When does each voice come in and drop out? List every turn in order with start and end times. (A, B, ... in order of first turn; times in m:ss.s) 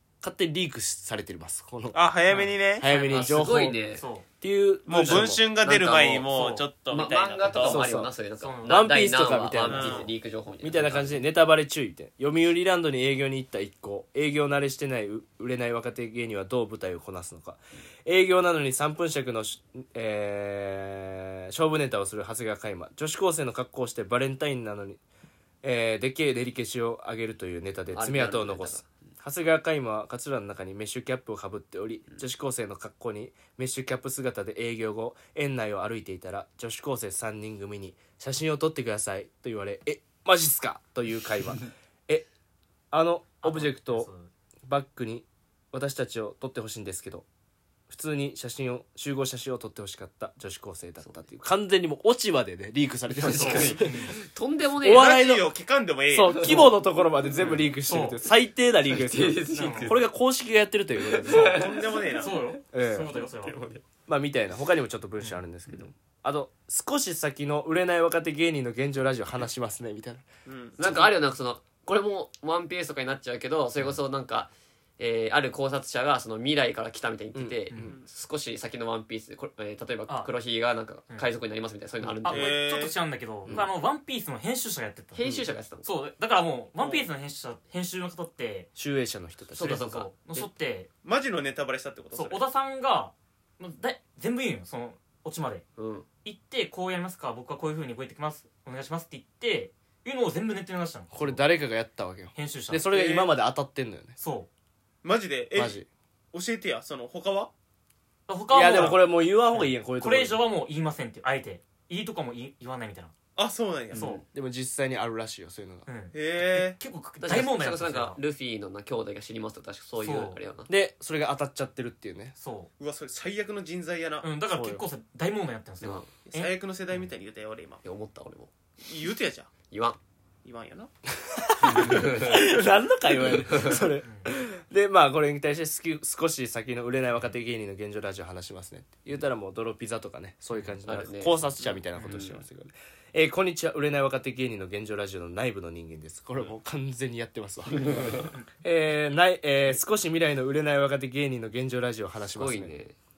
0:00.2-0:02.0 A
0:01.9-0:02.9 B
0:02.3-0:04.3 C
0:02.8-0:03.8 A
0:02.9-0:04.0 D
0:04.4-0:05.4 A
0:04.9-0:07.8 B
0:05.1-0:11.2 D
0:06.3-0:06.6 C
0:07.5-0:08.1 A
0:08.4-0:09.0 C
0:08.6-0:10.1 A
0:09.7-0:10.1 B
0:10.6-0:25.0 A
0:25.6-0:42.3 A
0:27.9-0:28.9 D
0:42.9-0:44.1 A
0:43.4-0:44.3 C
0:44.7-0:47.3 A
0:47.9-0:54.1 A
0:53.2-0:55.1 D
0:53.2-0:54.2 C
0:54.8-0:55.5 A
0:54.9-0:56.8 B
0:56.1-1:01.6 A
0:56.3-0:56.7 D
0:57.4-0:57.7 D
0:57.6-0:58.2 C
0:58.8-1:00.1 D
0:59.5-1:00.0 C
1:01.0-1:02.2 D
1:01.3-1:03.6 C
1:01.3-1:02.5 B
1:02.7-1:03.1 A
1:03.1-1:03.8 D
1:04.1-1:10.3 A
1:10.5-1:10.8 B
1:10.8-1:22.6 D
1:10.8-1:11.1 A
1:17.3-1:17.6 A
1:17.8-1:18.1 B
1:20.1-1:20.3 C
1:22.2-1:25.3 C
1:22.3-1:23.0 B
1:25.1-1:25.9 D
1:25.8-1:28.7 C
1:26.8-1:27.1 B
1:28.8-1:29.8 A
1:29.5-1:30.5 D
1:29.6-1:30.9 C
1:31.0-1:32.4 B
1:32.1-1:35.6 C
1:35.8-1:36.1 D
1:36.2-1:41.4 C
1:41.1-1:44.2 A
1:42.3-1:42.9 C
1:42.9-1:43.3 B
1:44.2-1:44.5 C
1:45.0-1:45.8 B
1:45.6-1:45.9 A
1:46.3-1:47.5 B
1:48.3-1:53.1 C
1:48.5-1:50.4 A
1:53.4-1:54.1 B
1:53.9-1:54.2 D
1:53.9-1:54.2 C
1:54.3-1:55.9 A
1:55.9-1:58.2 C
1:56.1-1:56.8 B
1:57.2-2:00.7 D
2:00.0-2:00.4 C
2:00.7-2:02.3 A
2:02.4-2:02.7 C
2:02.8-2:04.3 B
2:04.2-2:07.1 C
2:04.5-2:04.8 A
2:05.8-2:06.1 D
2:06.2-2:07.8 B
2:07.8-2:08.5 D
2:08.8-2:09.5 B
2:09.7-2:10.0 D
2:10.4-2:10.9 B
2:11.2-2:32.8 A
2:11.6-2:12.4 D
2:13.4-2:13.8 D
2:14.0-2:14.3 C
2:20.9-2:22.4 D
2:22.0-2:22.3 C
2:27.8-2:28.3 D
2:32.4-2:33.0 D